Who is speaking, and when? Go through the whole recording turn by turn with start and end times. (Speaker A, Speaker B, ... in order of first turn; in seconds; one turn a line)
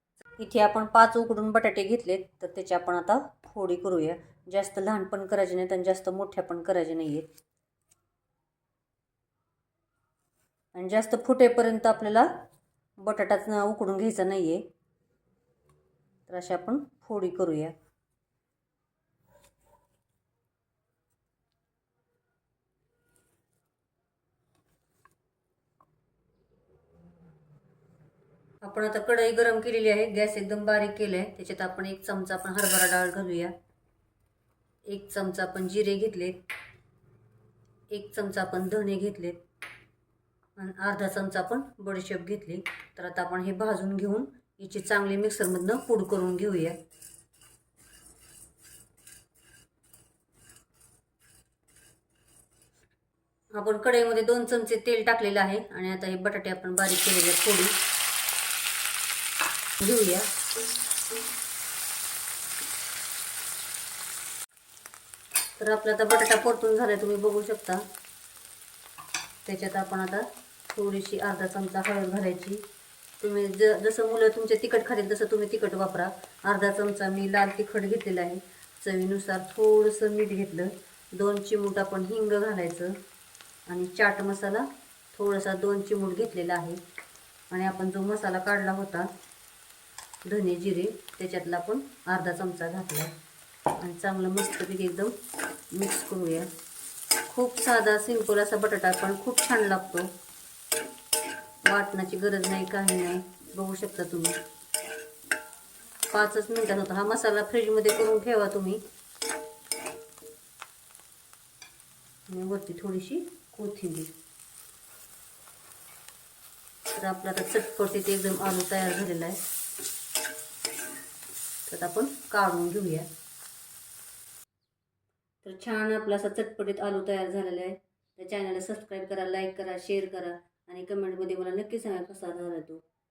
Speaker A: 0.4-7.3
Speaker A: 10.7-12.3
Speaker A: 13.0-14.6
Speaker A: 16.3-17.7
Speaker A: 28.6-33.5
Speaker A: 34.9-36.4
Speaker A: 37.9-39.4
Speaker A: 40.6-46.8
Speaker A: 53.5-57.7
Speaker A: 59.8-60.3
Speaker A: 65.6-67.8
Speaker A: 69.4-72.6
Speaker A: 73.2-83.0
Speaker A: 83.7-86.8
Speaker A: 87.5-89.1
Speaker A: 90.2-93.1
Speaker A: 93.8-95.1
Speaker A: 95.7-96.5
Speaker A: 97.3-100.1
Speaker A: 101.6-104.4
Speaker A: 106.1-108.8
Speaker A: 112.3-114.1
Speaker A: 116.9-119.4
Speaker A: 121.7-123.1
Speaker A: 125.4-132.8